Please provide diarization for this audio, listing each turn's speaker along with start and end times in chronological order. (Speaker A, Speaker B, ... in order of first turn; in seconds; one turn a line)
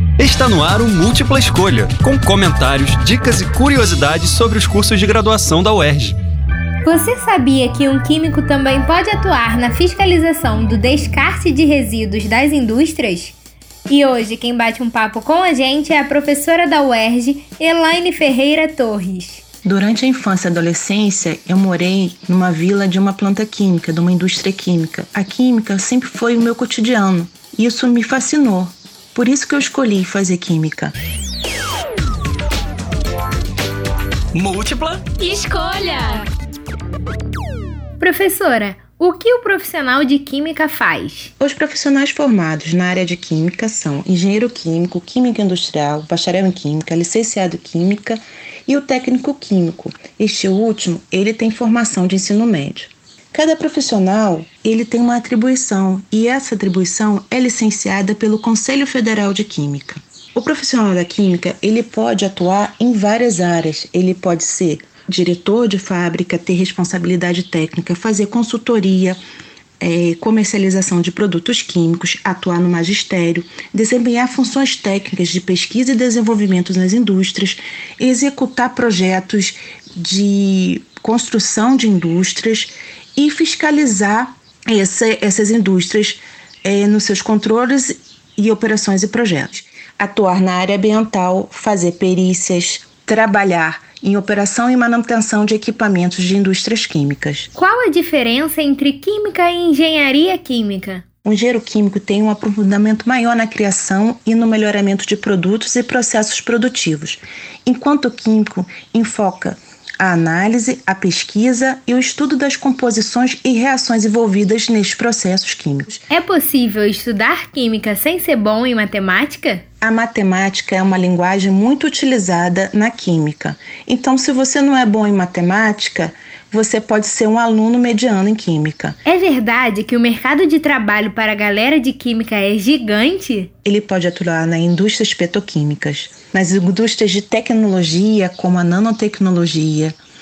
Speaker A: 0.2-6.2
Speaker B: 6.8-13.3
Speaker B: 13.9-19.4
Speaker C: 19.6-30.9
Speaker B: 35.2-36.1
Speaker B: 38.0-41.3
Speaker C: 41.4-69.2
Speaker C: 69.8-97.5
Speaker B: 97.5-101.0
Speaker C: 101.2-116.0
Speaker B: 116.1-119.6
Speaker C: 119.8-129.0
Speaker B: 129.1-133.5
Speaker C: 133.7-139.9